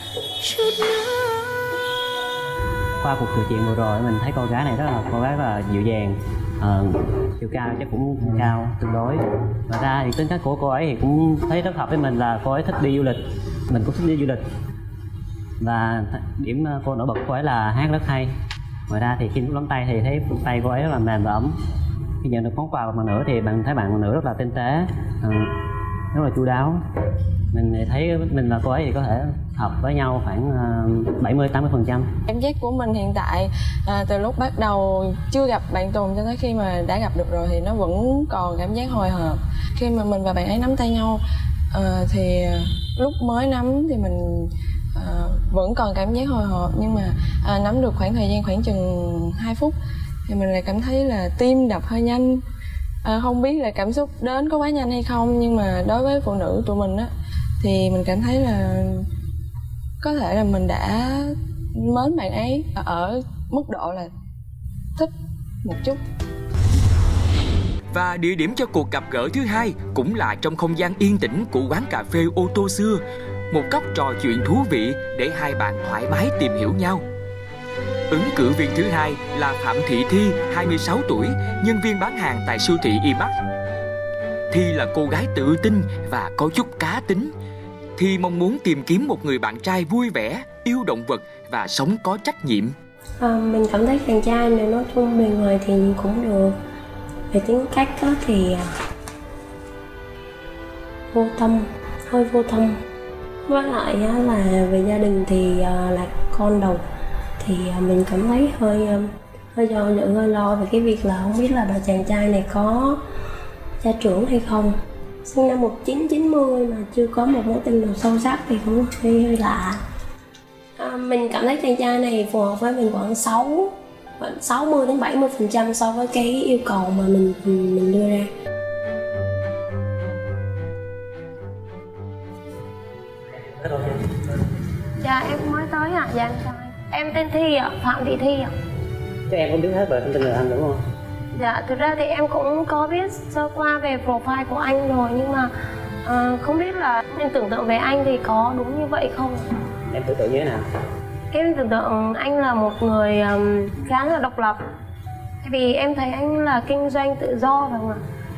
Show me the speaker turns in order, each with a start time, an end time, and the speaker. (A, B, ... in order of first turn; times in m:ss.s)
0:00.5-0:01.0 A
0:03.0-0:14.4 B
0:15.6-0:18.3 B
0:18.9-0:21.6 B
0:22.2-0:25.6 B
0:26.1-0:26.8 B
0:27.5-0:32.1 B
0:32.3-0:41.2 A
0:41.7-0:49.8 A
0:50.3-0:52.4 A
0:53.0-0:59.1 A
1:00.0-1:04.1 A
1:05.6-1:06.0 A
1:07.9-1:17.0 C
1:18.1-1:23.3 C
1:24.5-1:27.3 C
1:28.0-1:32.8 C
1:33.2-1:36.6 D
1:37.3-1:38.7 D
1:41.1-1:42.8 D
1:43.5-1:46.8 D
1:47.4-1:53.0 D
1:53.8-1:59.8 D
2:00.8-2:08.3 D
2:13.4-2:14.4 B
2:15.0-2:18.5 D
2:19.3-2:20.8 B
2:21.3-2:25.5 D
2:26.0-2:29.5 D
2:29.9-2:30.6 B
2:31.3-2:34.6 D
2:35.4-2:38.0 D